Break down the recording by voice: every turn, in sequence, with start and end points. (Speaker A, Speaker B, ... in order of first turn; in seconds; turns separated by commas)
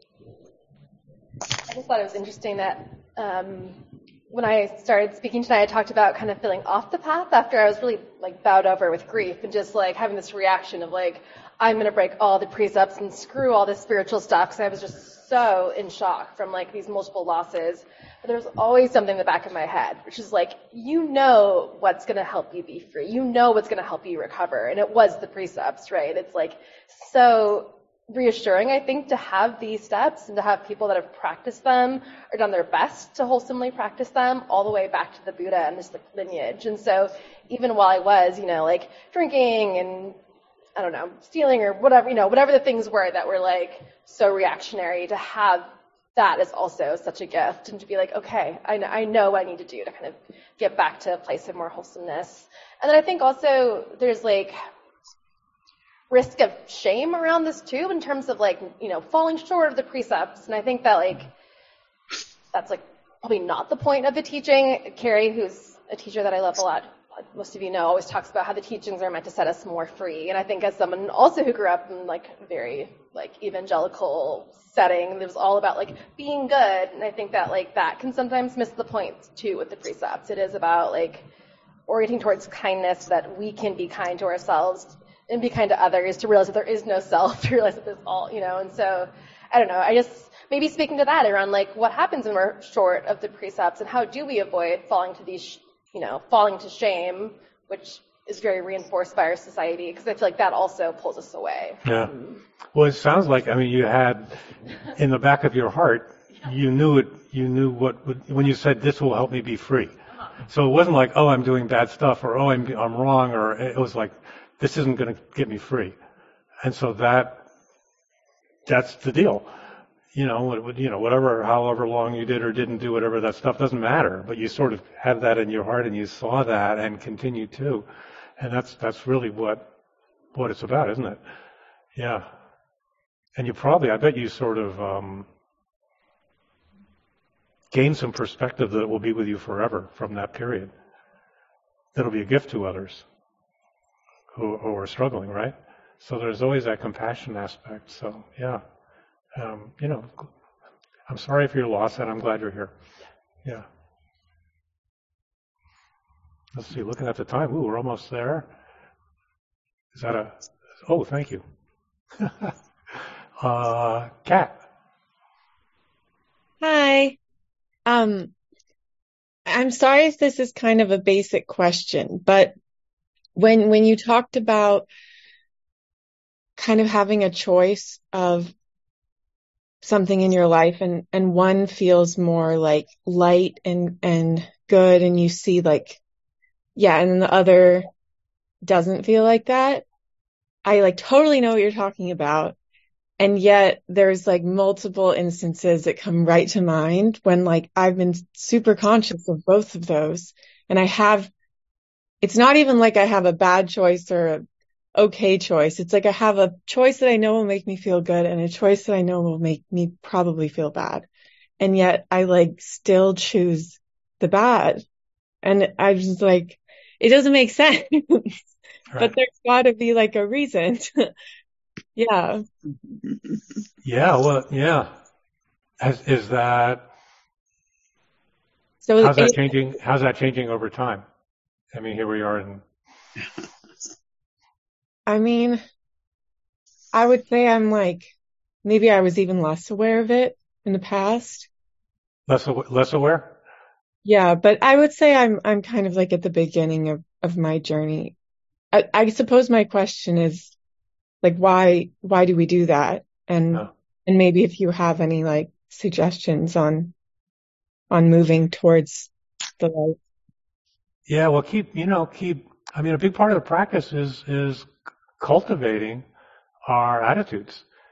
Speaker A: 1.6-40.1, Speaker A: 40.8-54.5, Speaker A: 56.1-61.3, Speaker A: 62.5-81.2, Speaker A: 81.9-101.8, Speaker B: 101.8-102.1, Speaker B: 102.7-104.4, Speaker B: 104.9-109.9, Speaker B: 110.5-116.0, Speaker B: 116.6-117.5, Speaker B: 118.7-119.5, Speaker B: 120.1-127.8, Speaker B: 128.4-129.7, Speaker B: 130.3-131.2, Speaker B: 131.9-132.3, Speaker B: 133.3-135.3, Speaker B: 137.7-140.7, Speaker B: 141.9-143.0, Speaker B: 144.3-148.6, Speaker B: 149.3-150.3, Speaker B: 151.1-152.7, Speaker B: 156.5-158.5, Speaker B: 159.9-161.4, Speaker B: 162.2-164.6, Speaker C: 166.6-167.2, Speaker C: 167.8-168.3, Speaker C: 169.5-172.5, Speaker C: 173.3-174.9, Speaker C: 176.6-178.5, Speaker C: 179.8-186.0, Speaker C: 186.8-187.9, Speaker C: 188.6-189.8, Speaker C: 190.6-192.6, Speaker C: 193.2-201.3, Speaker C: 202.2-204.4, Speaker C: 204.9-211.1, Speaker C: 211.6-214.8, Speaker C: 215.4-218.4, Speaker C: 218.9-221.1, Speaker C: 221.9-222.4, Speaker B: 223.8-224.9, Speaker B: 225.8-226.9, Speaker C: 228.8-229.5, Speaker B: 229.0-231.0, Speaker B: 231.7-232.6, Speaker C: 235.1-235.6, Speaker C: 236.9-238.1, Speaker C: 238.6-241.5, Speaker B: 242.3-243.4, Speaker C: 244.0-248.1, Speaker C: 248.7-250.5, Speaker C: 251.2-256.9, Speaker C: 257.9-260.0, Speaker B: 261.1-266.1, Speaker B: 266.7-267.6